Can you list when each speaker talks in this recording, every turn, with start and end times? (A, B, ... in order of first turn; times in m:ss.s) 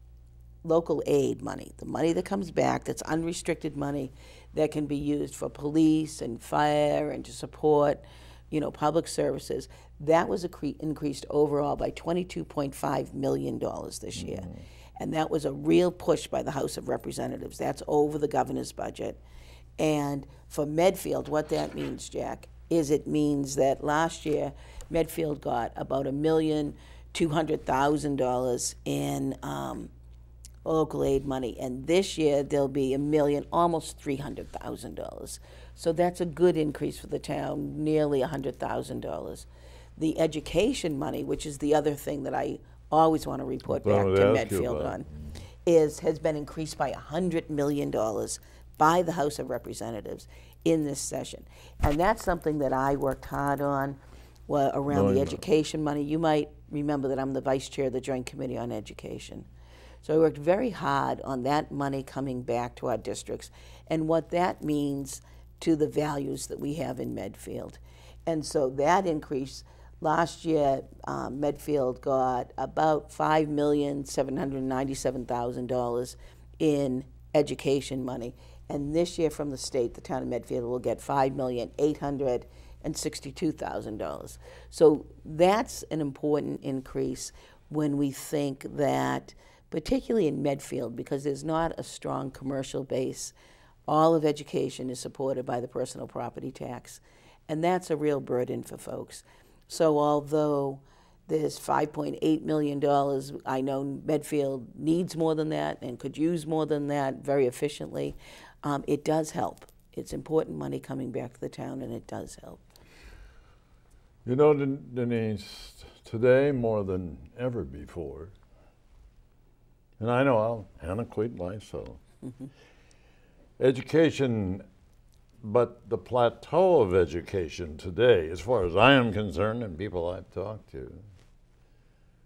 0:00.6-0:14.5 A
0:14.2-0:14.6 B
0:15.0-0:19.2 A
0:19.8-0:29.9 A
0:30.6-0:45.0 A
0:43.7-0:45.1 B
0:45.6-0:59.5 A
0:54.9-0:55.4 B
1:00.0-1:33.3 A
1:33.9-1:52.6 A
1:54.2-1:58.3 B
2:00.0-2:02.0 B
2:03.6-2:04.6 B
2:05.4-2:11.0 B